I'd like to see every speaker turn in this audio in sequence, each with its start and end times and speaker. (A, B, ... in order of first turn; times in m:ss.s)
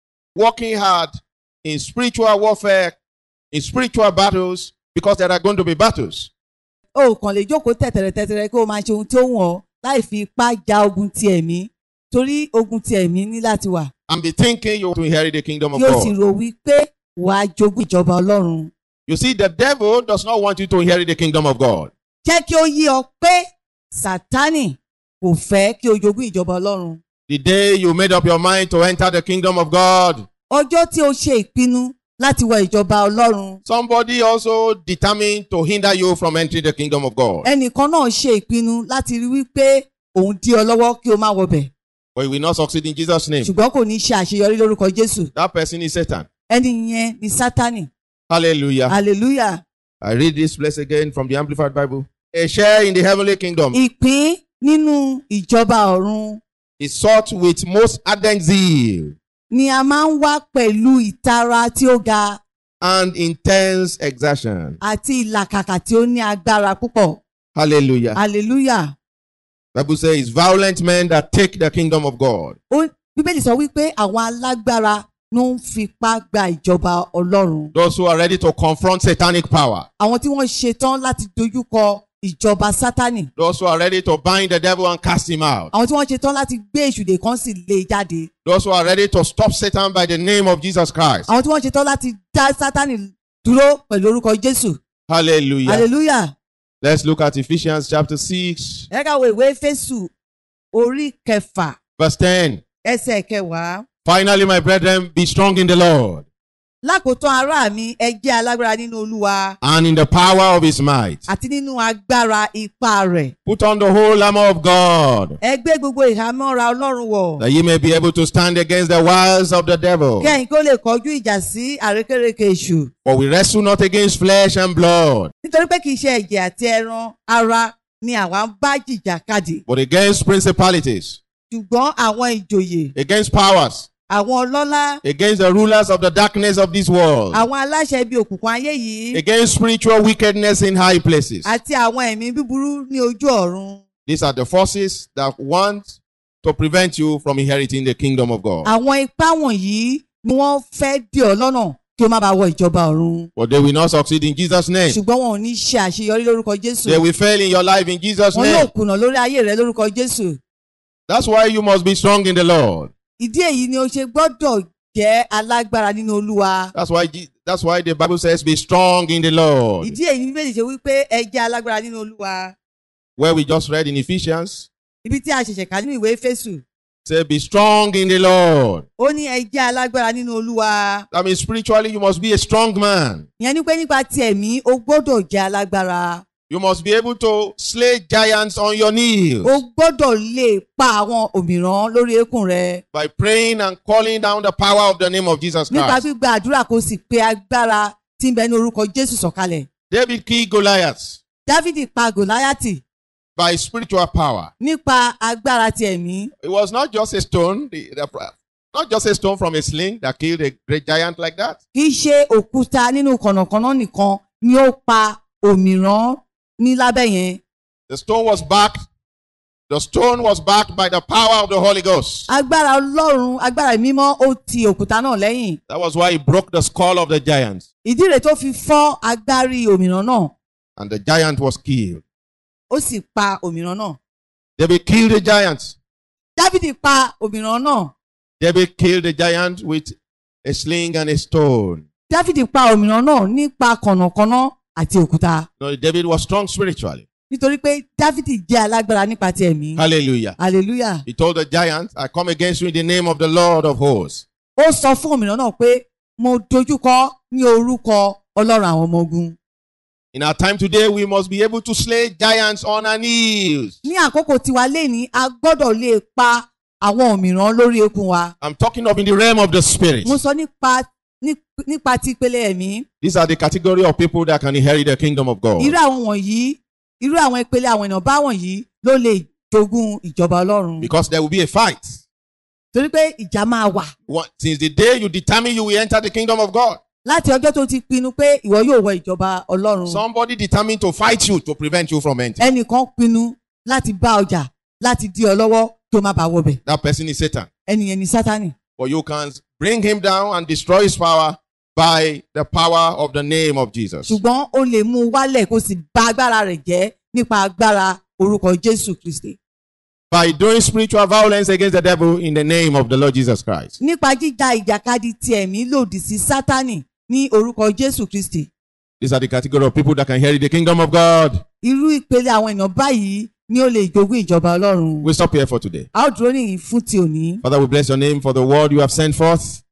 0:00.4-0:03.0 A
0:03.5-0:06.3 A
0:06.9-0:13.9 B
0:14.1-0:16.2 A
0:15.8-0:18.7 B
0:19.1-0:21.9 A
0:22.2-0:27.0 B
0:27.3-0:30.3 A
0:30.5-0:33.6 B
0:33.7-0:37.5 A
0:37.4-0:41.7 B
0:42.2-0:43.5 A
0:43.4-0:45.3 B
0:45.4-0:46.3 A
0:46.5-0:47.9 B
0:48.3-0:49.0 A
0:48.9-0:49.6 B
0:50.0-0:53.8 A
0:53.7-0:56.4 B
0:56.8-0:59.2 A
0:59.5-1:02.4 B
1:02.8-1:04.8 A
1:04.8-1:07.2 B
1:07.6-1:08.2 A
1:08.1-1:08.9 B
1:09.7-1:12.6 A
1:12.7-1:17.7 B
1:17.7-1:19.9 A
1:20.0-1:23.3 B
1:23.4-1:25.7 A
1:25.7-1:28.3 B
1:28.5-1:31.3 A
1:31.3-1:34.8 B
1:35.1-1:35.9 A
1:35.6-1:36.3 B
1:36.8-1:38.9 A
1:38.9-1:40.1 B
1:40.7-1:41.8 B
1:42.0-1:42.6 A
1:42.8-1:43.9 B
1:44.0-1:46.2 A
1:46.8-1:49.6 B
1:49.6-1:51.2 A
1:51.3-1:53.4 B
1:53.5-1:55.4 A
1:55.4-1:57.4 B
1:57.4-2:00.4 A
2:00.2-2:02.9 B
2:03.0-2:05.3 A
2:05.4-2:09.6 B
2:09.7-2:11.2 A
2:11.5-2:13.0 B
2:13.0-2:13.9 A
2:14.1-2:15.0 B
2:15.0-2:17.5 A
2:17.3-2:19.2 B
2:19.1-2:21.5 A
2:21.4-2:23.8 B
2:24.1-2:28.7 A
2:28.6-2:33.3 B
2:33.4-2:35.0 A
2:34.9-2:37.0 B
2:36.8-2:38.7 A
2:38.3-2:40.4 B
2:41.1-2:42.9 A
2:43.2-2:46.7 B
2:46.7-2:50.0 A
2:49.8-2:52.6 B
2:53.2-2:54.7 A
2:55.0-2:56.6 B
2:57.1-2:58.8 A
2:59.0-3:01.1 B
3:01.1-3:03.3 A
3:03.4-3:06.2 B
3:06.5-3:09.6 A
3:09.4-3:12.8 B
3:12.9-3:16.0 A
3:15.7-3:19.7 B
3:19.9-3:21.2 A
3:21.5-3:22.8 B
3:23.4-3:24.5 A
3:24.6-3:26.3 B
3:26.4-3:31.6 A
3:31.7-3:37.4 B
3:37.9-3:38.8 A
3:39.7-3:42.3 A
3:42.3-3:45.6 B
3:45.7-3:47.6 A
3:47.8-3:50.4 B
3:50.8-3:52.0 A
3:52.7-3:54.0 B
3:54.6-3:55.8 A
3:56.4-3:57.9 B
3:58.4-4:01.8 A
4:02.1-4:05.5 B
4:05.6-4:07.0 A
4:07.3-4:09.8 B
4:09.8-4:10.4 A
4:10.4-4:11.0 B
4:11.1-4:14.2 A
4:14.6-4:19.4 B
4:20.1-4:23.8 A
4:23.8-4:28.3 B
4:28.4-4:30.2 A
4:30.0-4:32.9 B
4:33.0-4:35.8 A
4:35.6-4:40.9 B
4:40.8-4:42.0 A
4:42.7-4:43.9 B
4:44.1-4:46.8 A
4:47.0-4:50.0 B
4:49.9-4:52.4 A
4:52.4-4:56.6 B
4:56.7-4:57.5 A
4:57.7-4:58.6 B
4:58.8-5:04.2 A
5:04.0-5:09.4 B
5:10.1-5:13.8 A
5:13.8-5:18.5 B
5:19.0-5:21.4 A
5:21.6-5:25.1 B
5:25.0-5:25.9 A
5:25.9-5:27.4 B
5:27.4-5:29.6 A